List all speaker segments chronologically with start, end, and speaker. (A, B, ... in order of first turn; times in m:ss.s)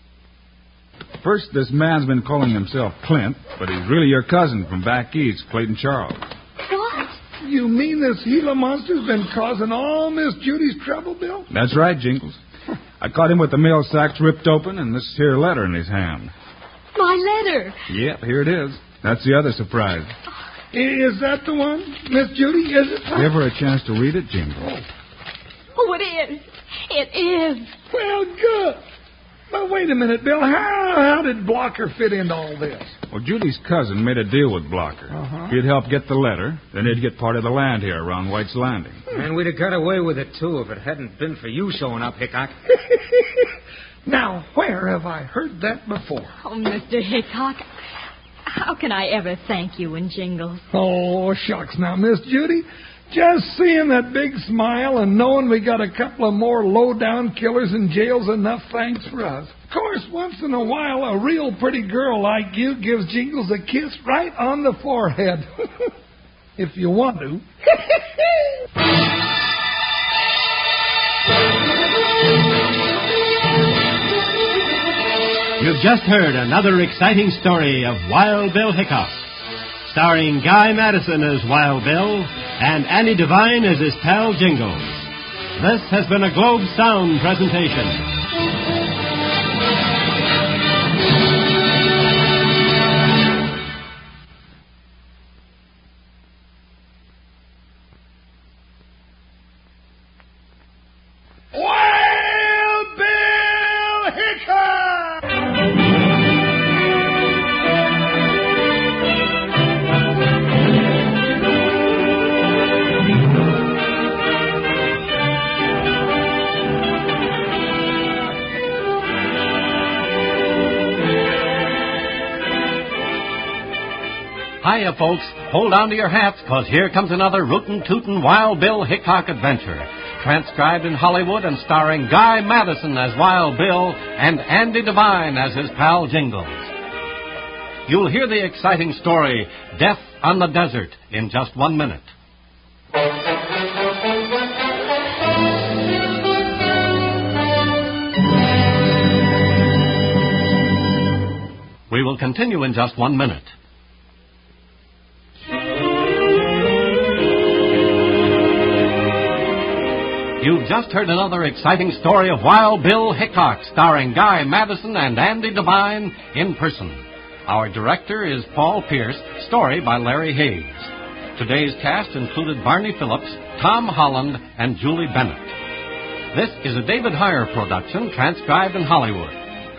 0:01.2-0:06.2 A
0:06.6-0:07.2 B
0:07.4-0:11.5 C
0:11.5-0:12.4 A
0:13.0-0:16.3 A
0:16.9-0:17.8 B
0:17.9-0:20.1 A
0:20.7-0:23.3 C
0:23.1-0:24.7 A
0:25.7-0:27.7 B
0:27.9-0:28.8 C
0:29.5-0:32.9 C
0:33.1-0:39.0 A
0:35.1-0:35.6 C
0:39.1-0:42.5 D
0:44.0-0:46.3 C
0:46.4-0:47.6 B
0:48.5-0:50.6 B
0:50.7-1:05.9 C
1:06.6-1:07.4 C
1:15.6-1:19.3 E
1:19.8-1:28.0 E
1:41.5-1:45.3 C
2:04.6-2:16.7 F
2:17.9-2:22.1 F
2:31.9-2:33.5 F
2:40.4-2:55.6 F
2:56.3-2:59.4 F